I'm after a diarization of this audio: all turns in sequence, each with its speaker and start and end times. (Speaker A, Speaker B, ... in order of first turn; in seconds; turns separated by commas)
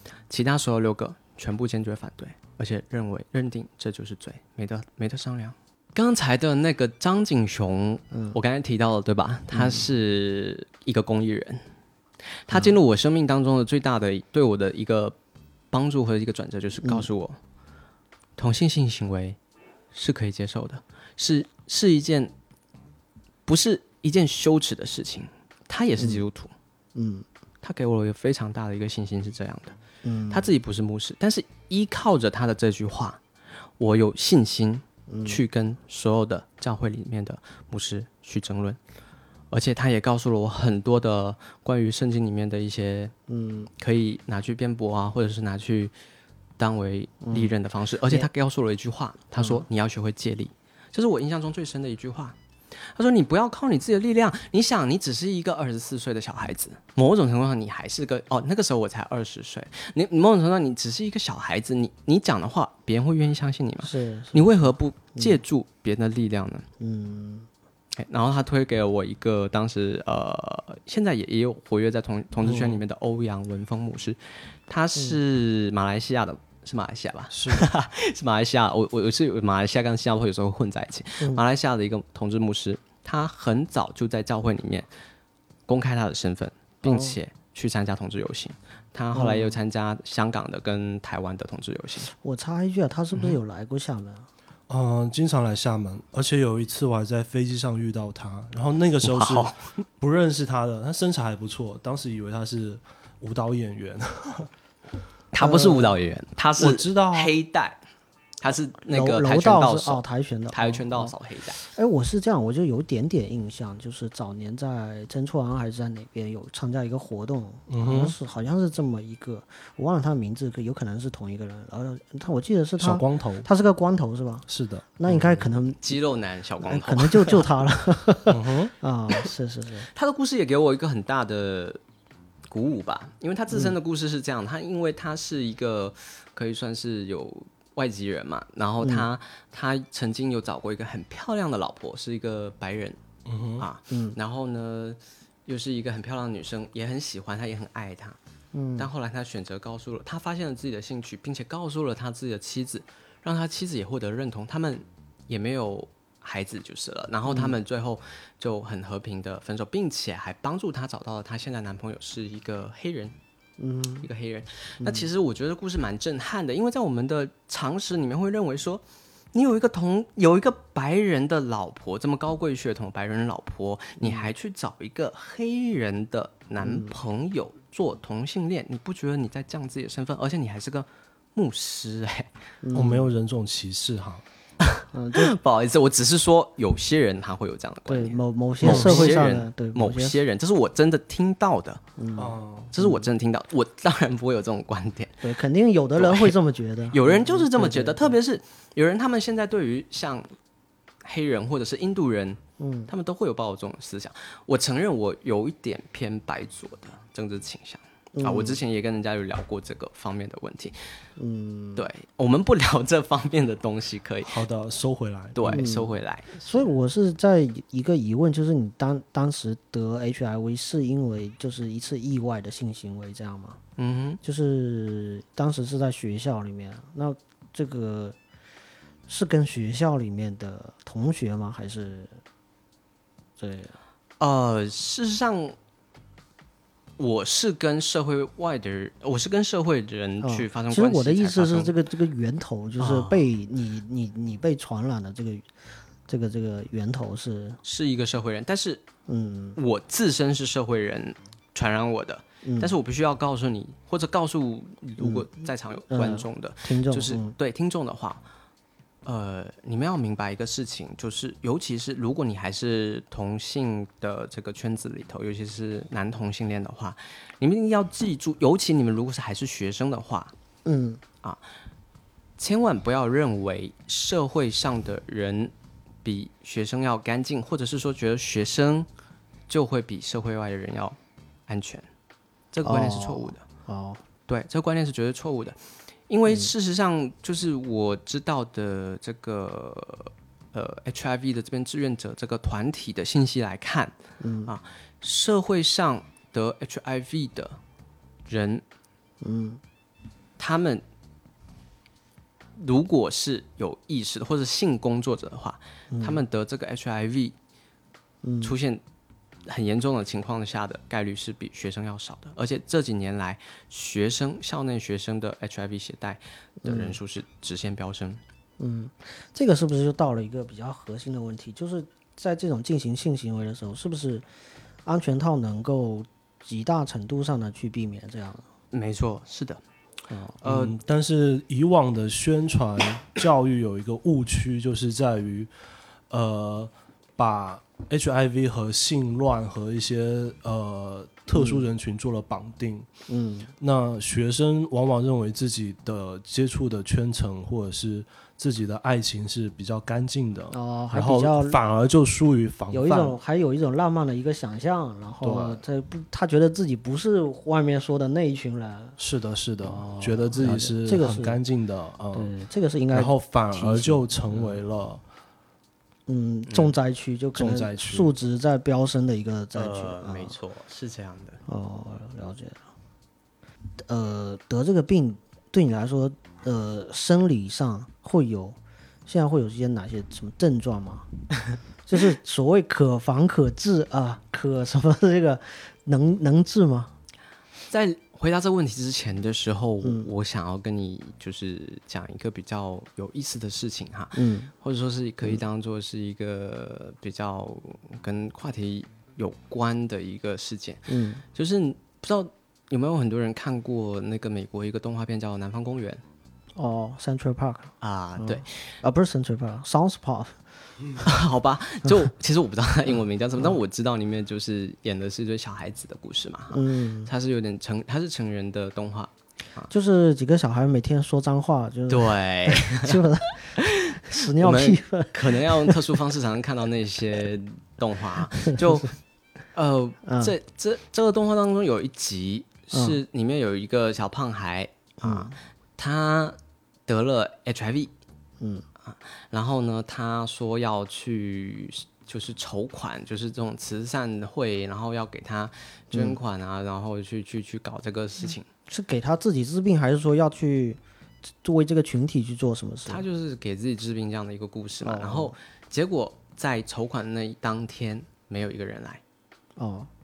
Speaker A: 0.3-11.6, Speaker B: 8.1-8.4, Speaker B: 9.5-9.8, Speaker A: 12.4-15.2, Speaker A: 15.7-17.4, Speaker A: 18.4-19.4, Speaker A: 19.9-22.3, Speaker A: 23.4-26.5, Speaker B: 26.9-27.2, Speaker A: 27.6-29.8, Speaker B: 30.0-30.5, Speaker A: 30.3-33.2, Speaker A: 33.8-38.8, Speaker B: 35.1-35.4, Speaker A: 39.5-43.1, Speaker B: 43.3-43.7, Speaker A: 43.8-45.9, Speaker A: 46.6-66.7, Speaker B: 47.2-47.5, Speaker B: 49.4-49.6, Speaker B: 63.8-64.6, Speaker B: 66.8-67.5, Speaker A: 68.0-84.9, Speaker C: 72.4-72.8, Speaker C: 77.3-77.7, Speaker A: 85.7-92.1, Speaker B: 86.8-87.1, Speaker B: 89.1-89.6, Speaker B: 92.1-94.3, Speaker C: 94.7-104.5, Speaker A: 99.0-99.6, Speaker A: 105.3-107.8, Speaker B: 105.4-106.0, Speaker C: 106.6-107.3, Speaker A: 108.4-111.6, Speaker B: 108.9-124.5, Speaker C: 117.7-118.1, Speaker C: 122.8-123.5, Speaker C: 124.5-125.5, Speaker B: 125.0-125.8, Speaker A: 125.8-127.5, Speaker B: 126.6-129.9, Speaker C: 128.3-128.7, Speaker A: 129.9-131.8, Speaker A: 132.5-143.0, Speaker B: 138.8-139.1, Speaker C: 143.2-143.7, Speaker A: 143.6-148.2, Speaker B: 143.9-144.1, Speaker B: 148.5-148.9, Speaker A: 148.8-163.2, Speaker B: 157.3-157.6, Speaker B: 163.6-164.1, Speaker A: 164.0-168.8, Speaker B: 164.8-165.1, Speaker A: 169.3-182.3, Speaker B: 174.0-174.2, Speaker B: 176.6-176.9, Speaker B: 182.6-183.1, Speaker C: 182.7-184.2, Speaker A: 184.7-191.8, Speaker B: 184.9-185.3, Speaker B: 187.9-190.2, Speaker C: 188.6-189.4, Speaker B: 192.0-193.1, Speaker C: 192.2-192.7, Speaker A: 192.7-195.2, Speaker B: 195.2-198.2, Speaker A: 196.0-196.3, Speaker A: 196.9-200.3, Speaker A: 201.0-211.0, Speaker B: 202.6-202.9, Speaker B: 208.2-208.6, Speaker B: 211.2-211.8, Speaker A: 211.8-214.4, Speaker C: 214.2-215.6, Speaker A: 215.3-216.7, Speaker B: 215.5-223.6, Speaker A: 223.8-224.2, Speaker B: 224.2-228.2, Speaker B: 229.1-232.2, Speaker B: 233.4-233.7, Speaker A: 234.2-235.6, Speaker A: 237.0-241.7, Speaker B: 240.2-245.5, Speaker A: 242.8-243.2, Speaker B: 246.1-247.6, Speaker A: 247.6-248.8, Speaker B: 249.1-249.6, Speaker A: 249.6-258.2, Speaker B: 252.4-252.7, Speaker B: 255.0-255.3, Speaker B: 255.9-257.3, Speaker A: 259.0-270.3, Speaker B: 270.6-271.0, Speaker A: 272.4-275.5, Speaker A: 276.0-278.9, Speaker A: 279.5-281.9, Speaker A: 282.5-283.4, Speaker B: 282.6-284.0, Speaker A: 284.3-297.6, Speaker B: 294.2-294.5, Speaker A: 298.2-298.6, Speaker B: 299.2-299.6, Speaker A: 300.4-300.8, Speaker A: 302.6-307.3, Speaker B: 305.9-306.2, Speaker B: 308.2-308.5, Speaker A: 308.4-308.8, Speaker A: 309.4-318.2, Speaker B: 316.6-316.9, Speaker B: 318.6-324.2, Speaker B: 324.8-328.4, Speaker A: 328.7-329.6, Speaker B: 330.1-330.4, Speaker A: 330.4-330.8, Speaker C: 330.4-335.5, Speaker C: 336.1-342.9, Speaker B: 341.3-341.6, Speaker B: 343.1-343.5, Speaker C: 343.6-353.1, Speaker B: 350.5-351.6, Speaker B: 352.7-359.0, Speaker C: 355.2-355.6, Speaker C: 359.0-362.3, Speaker B: 359.6-361.4, Speaker B: 362.1-364.5, Speaker C: 362.9-365.0, Speaker B: 366.1-370.3, Speaker A: 366.5-366.7, Speaker C: 367.3-368.1, Speaker A: 369.5-371.4, Speaker B: 371.5-372.6, Speaker B: 373.8-381.1, Speaker B: 381.9-386.9, Speaker A: 387.7-406.0, Speaker B: 389.8-390.1, Speaker B: 394.1-394.5, Speaker B: 400.9-401.2, Speaker B: 406.6-410.5, Speaker A: 407.8-408.8, Speaker A: 411.0-419.7, Speaker B: 416.5-417.1, Speaker B: 419.7-425.9, Speaker A: 421.9-423.0, Speaker A: 423.6-428.9, Speaker B: 428.4-428.9, Speaker A: 429.5-437.9, Speaker B: 430.1-430.3, Speaker B: 432.7-433.0, Speaker B: 435.0-435.3, Speaker B: 438.4-438.6, Speaker A: 438.8-448.5, Speaker B: 445.9-446.2, Speaker B: 448.7-450.8, Speaker B: 451.4-453.0, Speaker A: 452.9-459.0, Speaker B: 454.8-455.3, Speaker B: 459.6-459.9